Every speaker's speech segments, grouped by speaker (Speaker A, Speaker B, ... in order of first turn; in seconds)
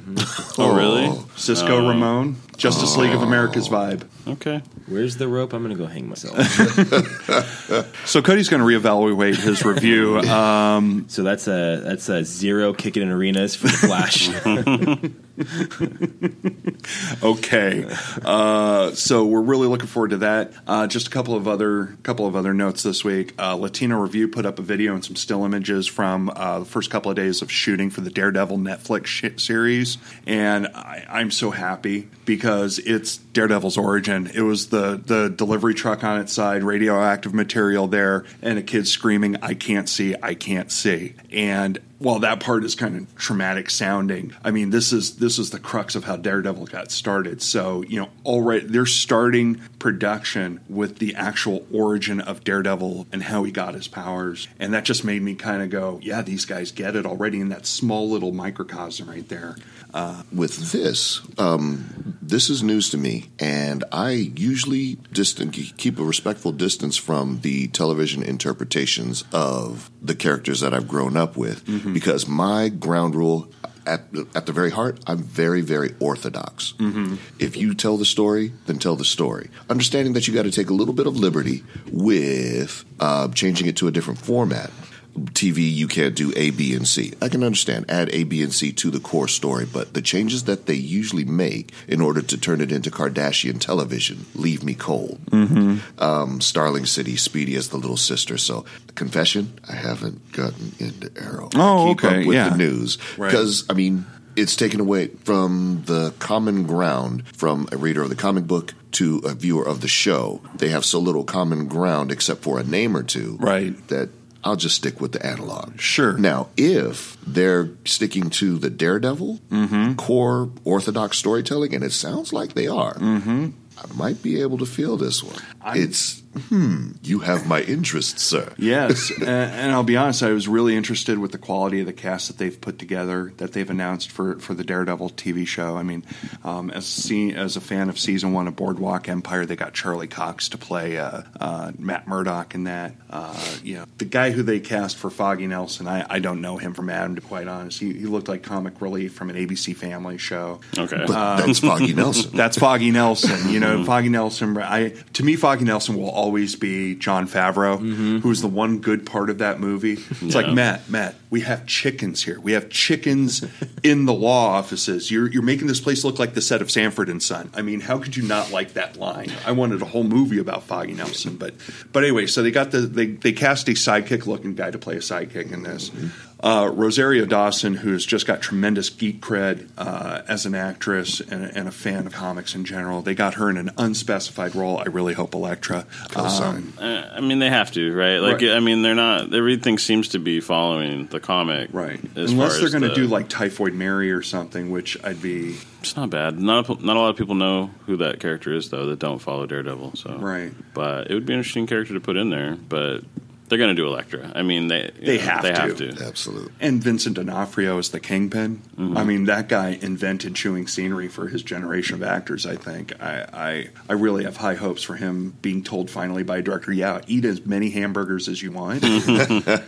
Speaker A: 0.4-1.2, 2.6-3.8, 60.3-95.3, 95.8-123.0, 123.8-129.2, 151.0-152.6, 186.1-186.7, 205.9-206.5
Speaker B: 0.5-2.1, 4.2-4.6, 14.3-14.9, 150.7-152.2, 160.2-160.6, 186.8-193.2, 195.8-206.0, 208.8-209.1, 218.9-219.4
Speaker C: 0.5-4.1, 6.4-11.1, 15.4-60.2, 71.7-72.0, 76.8-77.2, 95.3-95.8, 101.5-102.6, 103.2-103.4, 113.4-113.8, 115.8-116.2, 119.5-120.0, 123.0-123.5, 125.6-126.0, 128.6-151.7, 152.3-186.7, 191.7-195.6, 200.2-200.6, 205.0-205.8, 206.6-219.4
Speaker D: 4.8-7.0, 11.1-14.9